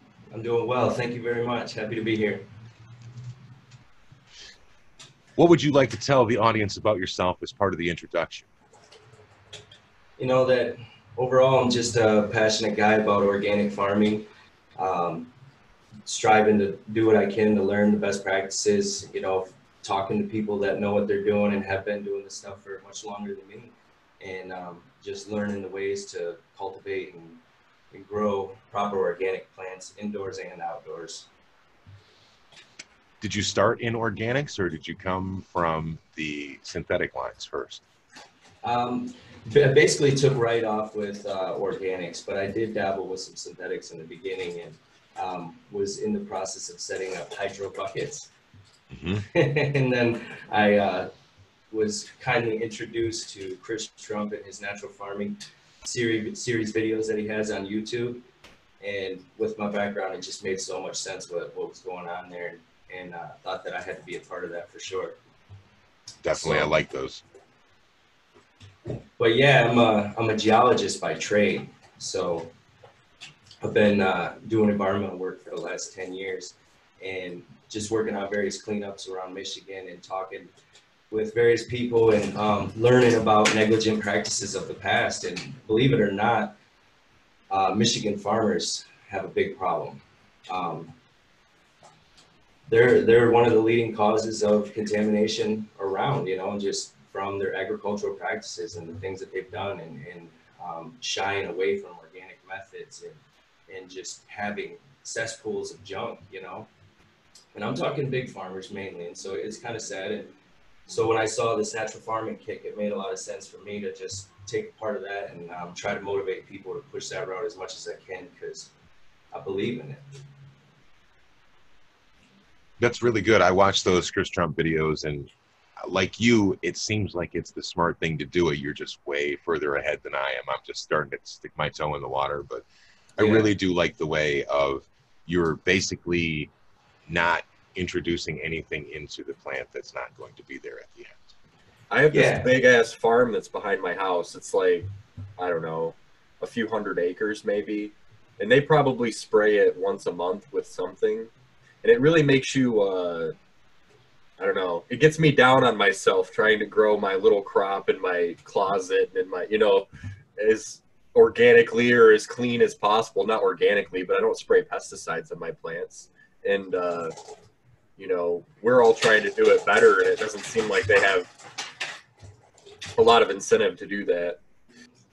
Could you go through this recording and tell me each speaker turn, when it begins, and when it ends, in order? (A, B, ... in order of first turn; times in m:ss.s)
0:00.3-0:02.4 A
0:05.4-0:08.5 B
0:10.2-0:14.2 A
0:14.8-0:15.3 A
0:16.1-0:27.4 A
0:27.9-0:31.3 A
0:33.2-0:37.8 B
0:38.6-0:48.3 A
0:48.9-0:49.3 B
0:49.3-0:51.1 A
0:51.7-0:58.2 A
0:58.8-1:05.2 A
1:06.2-1:07.2 B
1:06.4-1:06.7 A
1:09.2-1:12.5 A
1:13.6-1:20.5 A
1:21.1-1:26.5 A
1:27.5-1:30.9 A
1:32.7-1:46.7 A
1:47.5-1:50.3 A
1:50.9-1:58.7 A
1:59.3-2:00.0 A
2:02.8-2:12.6 B
2:13.2-2:16.5 B
2:13.2-2:13.5 A
2:17.1-2:21.2 B
2:21.9-2:31.3 C
2:22.1-2:22.5 A
2:31.8-2:33.3 C
2:34.4-2:47.1 C
2:48.0-2:51.3 C
2:52.9-2:54.4 C